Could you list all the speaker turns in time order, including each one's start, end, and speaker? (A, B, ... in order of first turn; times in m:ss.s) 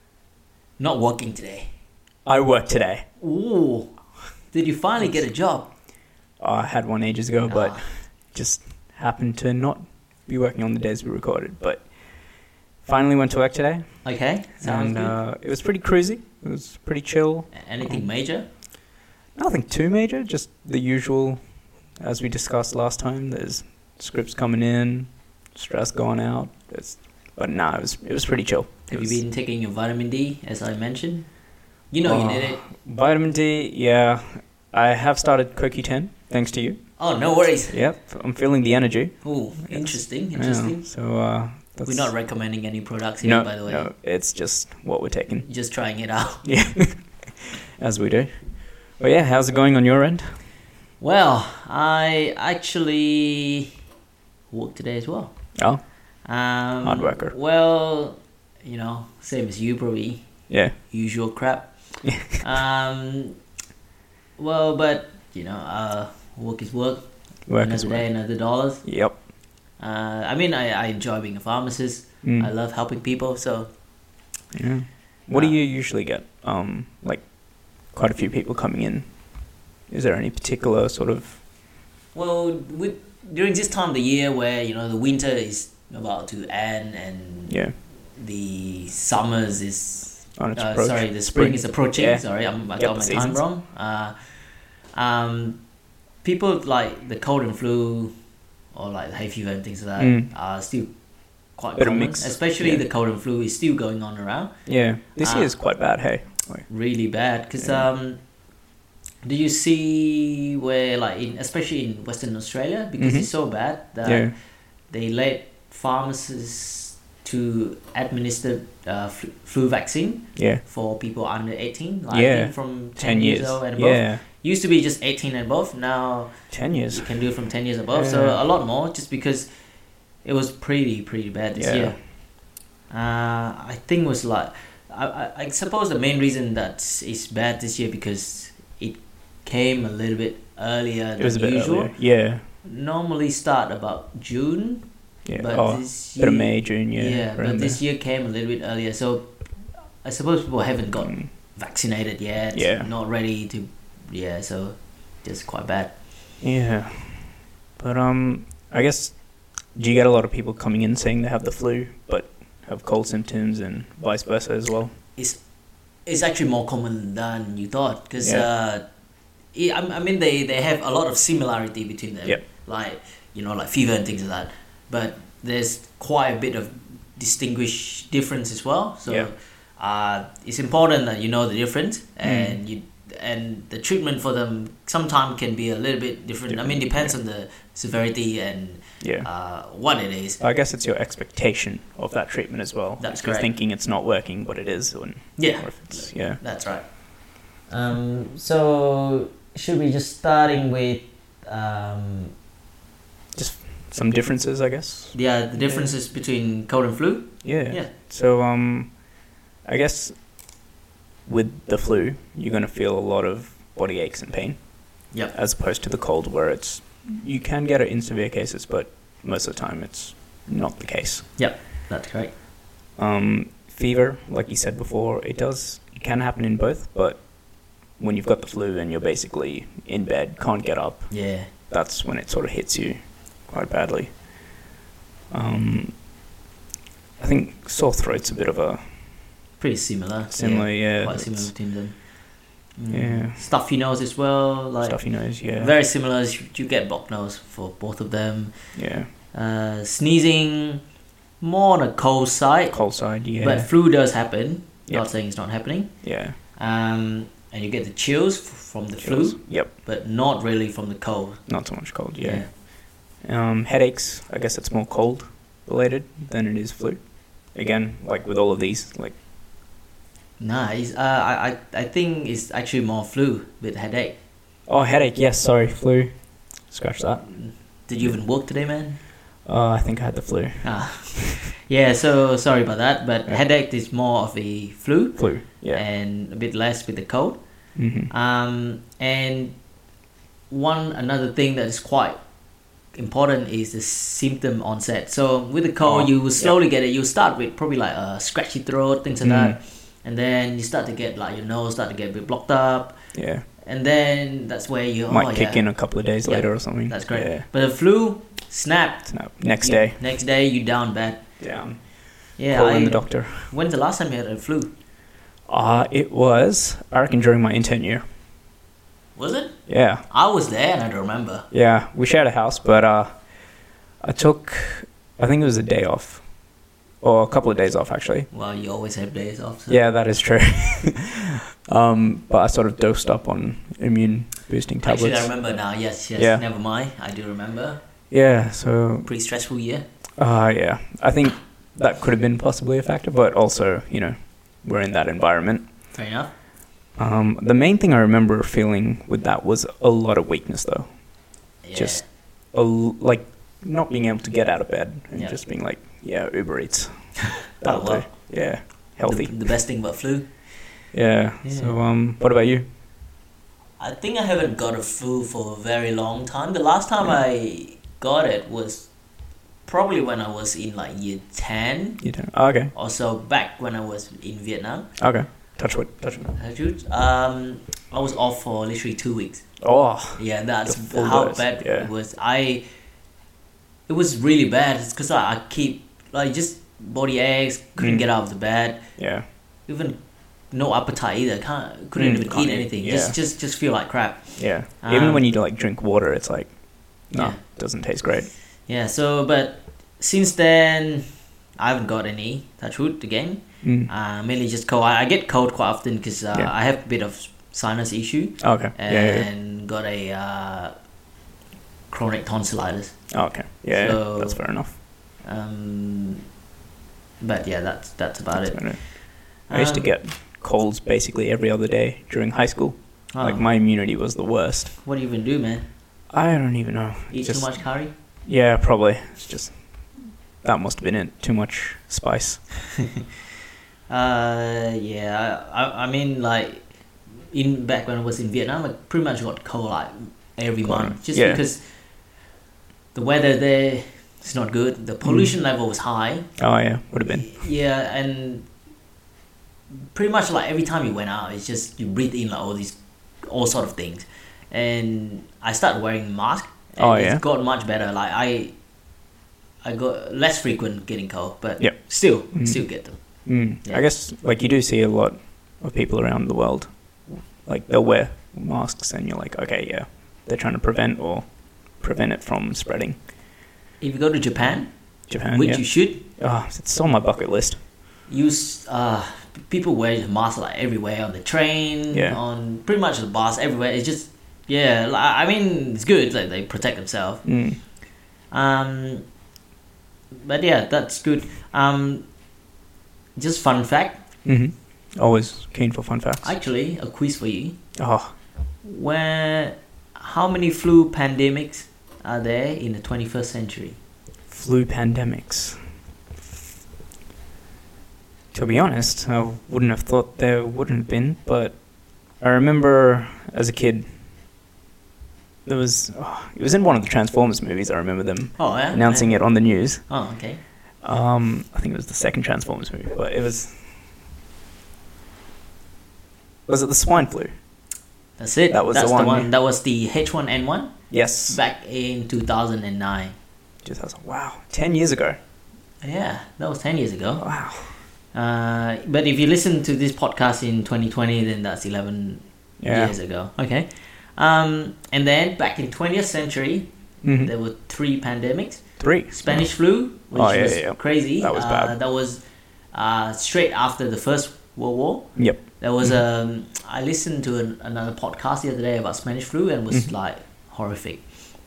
0:00.8-0:01.7 A
0:02.3-0:03.0 B
0:03.2-0:04.0 A
0:04.5-0:05.7 A
0:06.4-0:11.8 B
0:07.5-0:07.8 A
0:12.8-0:13.9 B
0:14.0-0:15.2 A
0:14.6-0:18.0 B
0:17.5-0:18.5 A
0:19.4-0:21.4 B
0:22.0-0:29.2 B
0:28.9-0:31.3 A
0:31.9-0:32.6 A
0:32.0-0:36.8 B
0:37.0-0:37.8 A
0:37.7-0:42.1 B
0:39.2-0:40.9 A
0:41.9-0:43.9 A
0:43.2-0:45.5 B
0:45.5-0:46.4 A
0:46.4-0:48.3 B
0:49.0-0:50.2 B
0:51.0-0:53.7 A
0:54.5-0:55.4 A
0:55.6-0:55.8 B
0:56.2-1:00.3 A
0:56.8-0:57.3 B
1:00.5-1:00.8 B
1:00.9-1:01.7 A
1:02.0-1:02.4 B
1:02.4-1:03.4 A
1:04.4-1:07.1 A
1:07.5-1:08.1 B
1:07.6-1:08.9 A
1:08.8-1:09.2 B
1:09.8-1:13.7 A
1:12.2-1:12.5 B
1:14.5-1:17.2 B
1:17.9-1:19.1 B
1:19.9-1:21.4 B
1:22.2-1:27.6 A
1:27.5-1:27.7 B
1:28.2-1:34.2 A
1:30.4-1:32.2 B
1:32.8-1:33.4 B
1:34.9-1:35.6 A
1:36.2-1:38.1 A
1:38.7-1:40.9 A
1:40.0-1:40.3 B
1:41.6-1:44.5 A
1:41.8-1:42.8 B
1:44.7-1:46.7 B
1:45.2-1:45.5 A
1:46.7-1:48.2 A
1:47.6-1:47.9 B
1:49.2-1:54.3 A
1:53.0-1:53.3 B
1:54.0-1:54.3 B
1:54.9-2:06.3 A
2:00.4-2:00.6 B
2:02.1-2:04.2 B
2:06.5-2:07.1 B
2:06.9-2:09.5 A
2:07.9-2:08.4 B
2:10.2-2:12.0 A
2:11.6-2:12.0 B
2:12.9-2:21.9 A
2:21.2-2:22.4 B
2:22.6-2:24.9 A
2:25.2-2:27.8 B
2:25.4-2:29.3 A
2:30.0-2:35.9 A
2:31.0-2:31.3 B
2:32.5-2:32.9 B
2:36.4-2:39.2 B
2:39.8-2:44.9 B
2:46.1-2:48.8 A
2:48.2-2:48.5 B
2:49.5-3:10.4 A
3:02.2-3:02.6 B
3:06.5-3:07.1 B
3:09.0-3:09.3 B
3:10.4-3:16.4 B
3:13.0-3:13.5 A
3:15.4-3:16.9 A
3:17.7-3:22.3 A
3:23.4-3:25.9 B
3:25.1-3:27.9 A
3:27.4-3:28.9 B
3:29.6-3:30.2 B
3:31.3-3:34.6 B
3:35.3-3:41.3 B
3:41.4-3:42.3 A
3:43.0-3:47.2 B
3:48.0-3:51.1 B
3:51.1-3:51.5 A
3:51.7-3:54.1 B
3:55.3-3:55.9 B
3:57.2-3:58.8 B
3:59.6-4:02.0 A
4:00.3-4:01.5 B
4:02.8-4:05.0 A
4:02.9-4:03.4 B
4:04.8-4:05.7 B
4:05.6-4:08.6 A
4:08.8-4:09.1 B
4:09.3-4:10.8 A
4:11.4-4:12.8 A
4:12.7-4:13.7 B
4:13.4-4:15.9 A
4:16.0-4:16.4 B
4:16.6-4:21.4 A
4:19.0-4:19.7 B
4:21.5-4:22.5 B
4:22.2-4:22.5 A
4:23.2-4:27.0 B
4:27.6-4:29.2 B
4:30.4-4:34.2 A
4:34.7-4:36.1 B
4:36.7-4:37.3 B
4:37.3-4:39.0 A
4:39.5-4:41.5 B
4:40.6-4:47.4 A
4:45.2-4:45.8 B
4:47.8-4:48.1 B
4:48.1-4:49.6 A
4:50.5-4:52.2 A
4:52.9-5:03.0 A
4:55.8-4:56.6 B
4:59.2-4:59.6 B
5:03.1-5:03.4 B
5:03.6-5:05.6 A
5:05.1-5:07.5 B
5:06.2-5:11.2 A
5:09.1-5:10.0 B
5:11.4-5:11.8 B
5:12.4-5:14.7 A
5:12.5-5:13.5 B
5:15.5-5:18.0 B
5:19.2-5:21.5 A
5:19.7-5:20.0 B
5:21.5-5:23.1 B
5:24.0-5:26.2 B
5:27.0-5:28.3 B
5:28.3-5:29.8 A
5:29.7-5:35.3 B
5:34.8-5:37.8 A
5:36.2-5:36.4 B
5:38.1-5:39.1 B
5:39.0-5:39.8 A
5:40.2-5:45.7 B
5:45.9-5:46.3 A
5:47.0-5:50.9 B
5:51.6-5:52.0 A
5:51.7-5:52.0 B
5:52.5-5:59.4 B
5:57.6-5:58.1 A
5:59.0-6:00.3 A
6:00.9-6:02.7 B
6:01.4-6:01.8 A
6:03.8-6:08.9 A
6:09.7-6:12.0 A
6:12.0-6:12.7 B
6:12.7-6:14.9 A
6:15.0-6:16.4 B
6:16.4-6:19.4 A
6:19.6-6:21.9 B
6:20.2-6:22.6 A
6:23.9-6:28.9 A
6:27.8-6:28.1 B
6:29.0-6:29.3 B
6:29.7-6:30.0 A
6:30.5-6:35.2 A
6:32.0-6:33.2 B
6:34.4-6:36.5 B
6:37.1-6:38.3 B
6:37.2-6:37.4 A
6:38.7-6:41.0 A
6:41.6-6:50.7 A
6:43.6-6:43.9 B
6:48.4-6:49.3 B
6:51.9-6:53.0 A
6:53.1-6:54.8 B
6:53.7-6:54.4 A
6:55.2-6:56.3 A
6:57.2-6:58.8 A
6:58.4-6:58.8 B
6:59.5-6:59.9 A
6:59.5-7:04.8 B
7:03.1-7:03.4 A
7:04.8-7:05.7 A
7:06.1-7:07.6 B
7:07.1-7:07.9 A
7:08.3-7:09.6 B
7:10.4-7:12.4 B
7:13.9-7:16.7 A
7:17.3-7:21.6 A
7:20.6-7:21.4 B
7:22.9-7:26.3 A
7:25.0-7:25.3 B
7:26.4-7:27.4 B
7:27.1-7:28.5 A
7:29.9-7:38.5 A
7:36.8-7:37.2 B
7:39.6-7:43.0 A
7:42.3-7:42.6 B
7:43.2-7:46.7 B
7:47.4-7:51.3 B
7:51.8-7:53.0 B
7:53.8-7:54.7 A
7:55.1-7:57.6 B
7:55.3-7:56.0 A
7:58.1-8:07.2 A
8:01.9-8:02.2 B
8:07.2-8:07.6 B
8:08.3-8:09.1 A
8:10.2-8:12.1 A
8:13.2-8:14.0 A
8:14.2-8:16.3 B
8:16.2-8:17.6 A
8:17.8-8:18.1 B
8:18.6-8:23.8 A
8:24.3-8:25.6 B
8:28.3-8:31.6 B
8:32.2-8:33.9 B
8:35.5-8:39.8 B
8:38.4-8:39.2 A
8:39.9-8:40.4 A
8:40.8-8:43.6 B
8:46.5-8:47.3 B
8:48.2-8:50.7 A
8:48.5-8:49.3 B
8:50.9-8:51.4 B
8:51.3-8:53.2 A
8:53.6-8:55.2 B
8:55.8-8:57.3 A
8:57.2-8:57.8 B
8:58.1-9:06.7 A
9:02.6-9:03.0 B
9:07.0-9:07.3 B
9:07.2-9:12.2 A
9:08.8-9:09.5 B
9:10.1-9:11.8 B
9:12.7-9:21.0 A
9:15.2-9:16.0 B